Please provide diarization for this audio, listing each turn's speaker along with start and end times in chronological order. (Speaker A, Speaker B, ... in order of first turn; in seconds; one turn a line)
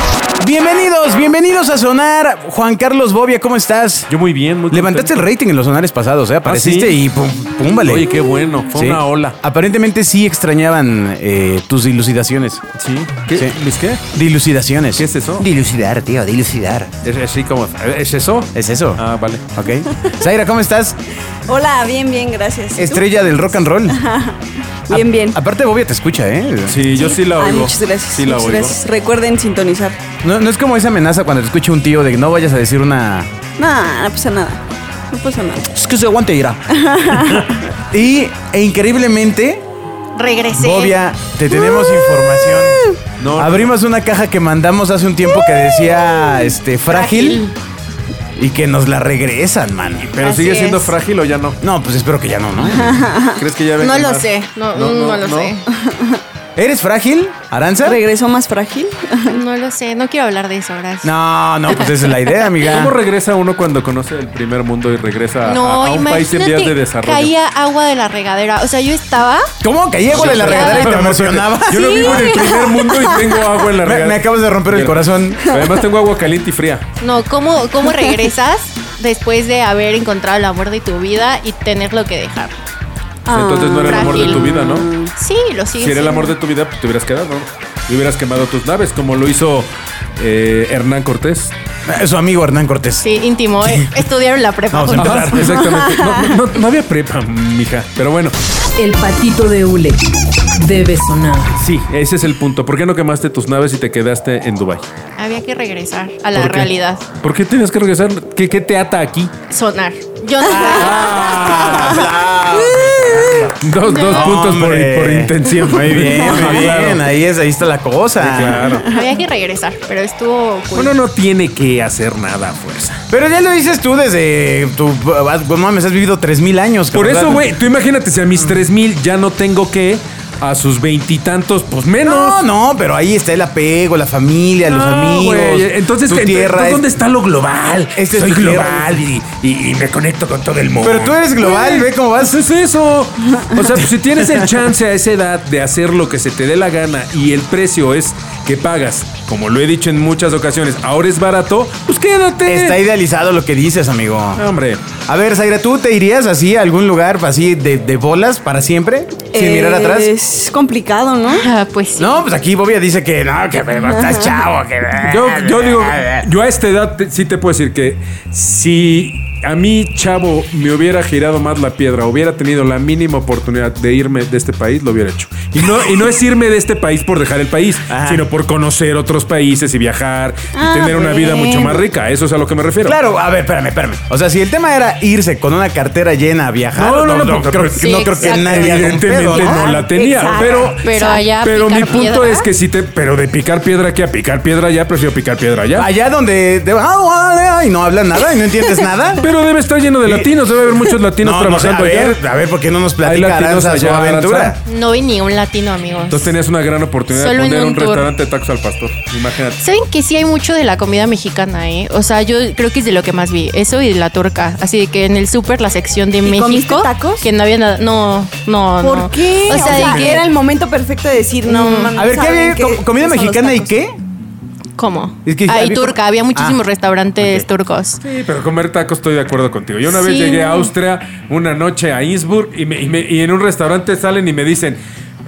Speaker A: 0.4-4.1
Speaker B: 4.1-5.3
Speaker A: 4.7-8.1
Speaker B: 6.4-7.0
Speaker B: 7.8-9.4
Speaker A: 8.7-12.6
Speaker B: 12.8-14.0
Speaker A: 14.1-16.9
Speaker B: 15.0-15.5
Speaker B: 17.0-19.4
Speaker A: 18.5-19.0
Speaker A: 19.6-21.0
Speaker C: 21.5-23.0
Speaker A: 22.8-24.0
Speaker C: 23.9-25.4
Speaker A: 24.9-26.8
Speaker B: 26.7-28.8
Speaker C: 26.9-30.0
Speaker A: 30.2-33.3
Speaker C: 33.6-35.7
Speaker A: 35.6-37.3
Speaker C: 36.8-37.6
Speaker A: 37.9-39.6
Speaker D: 40.1-41.0
Speaker A: 40.5-47.4
Speaker C: 41.5-43.0
Speaker B: 43.2-43.7
Speaker D: 46.9-47.5
Speaker A: 48.4-50.1
Speaker B: 50.0-51.6
Speaker D: 50.2-51.0
Speaker A: 51.6-53.1
Speaker C: 52.7-53.4
Speaker B: 53.4-55.5
Speaker D: 53.8-55.6
Speaker C: 55.7-56.2
Speaker A: 56.6-58.0
Speaker C: 57.8-59.4
Speaker D: 59.3-61.2
Speaker A: 61.0-63.0
Speaker D: 61.7-62.0
Speaker B: 62.6-67.3
Speaker D: 65.4-69.5
Speaker A: 69.6-72.6
Speaker B: 70.1-76.8
Speaker D: 70.2-71.1
Speaker D: 71.7-72.7
Speaker A: 73.8-75.6
Speaker D: 77.0-82.6
Speaker C: 83.3-85.1
Speaker B: 83.3-84.9
Speaker D: 83.9-84.5
Speaker D: 85.2-86.3
Speaker B: 85.8-91.5
Speaker A: 91.9-93.1
Speaker D: 93.0-95.4
Speaker A: 93.6-94.0
Speaker A: 94.7-95.7
Speaker B: 95.0-98.3
Speaker C: 95.8-96.2
Speaker E: 98.8-100.0
Speaker E: 100.6-101.6
Speaker B: 101.6-104.9
Speaker D: 105.2-107.0
Speaker B: 106.3-106.7
Speaker B: 107.2-109.3
Speaker D: 109.5-111.7
Speaker B: 110.6-112.1
Speaker C: 110.6-110.9
Speaker A: 111.5-118.8
Speaker C: 112.5-113.5
Speaker B: 113.6-117.1
Speaker D: 113.8-114.4
Speaker C: 116.2-116.5
Speaker B: 118.2-118.9
Speaker D: 118.9-120.9
Speaker B: 120.8-123.0
Speaker A: 123.1-127.5
Speaker B: 126.9-132.4
Speaker A: 132.1-136.8
Speaker B: 134.7-152.8
Speaker A: 137.9-139.1
Speaker A: 140.8-142.5
Speaker A: 143.7-144.5
Speaker A: 152.4-154.4
Speaker B: 154.4-154.8
Speaker A: 155.1-160.1
Speaker C: 159.3-161.5
Speaker D: 161.3-162.2
Speaker A: 162.0-166.3
Speaker C: 163.9-164.3
Speaker B: 165.1-183.0
Speaker A: 177.9-178.2
Speaker C: 180.5-181.8
Speaker A: 182.8-189.7
Speaker B: 186.8-190.8
Speaker D: 187.7-189.0
Speaker C: 189.3-191.2
Speaker D: 190.7-192.5
Speaker B: 191.4-195.9
Speaker A: 195.8-199.3
Speaker B: 199.2-202.2
Speaker A: 200.0-204.6
Speaker B: 203.0-204.6
Speaker D: 204.7-206.3
Speaker B: 206.1-209.6
Speaker D: 207.1-208.1
Speaker D: 209.6-220.3
Speaker C: 216.2-217.3
Speaker C: 218.8-223.7
Speaker D: 221.4-222.0
Speaker A: 222.0-224.0
Speaker D: 224.8-228.0
Speaker A: 225.2-226.6
Speaker A: 227.2-227.5
Speaker B: 228.0-234.8
Speaker D: 229.9-230.7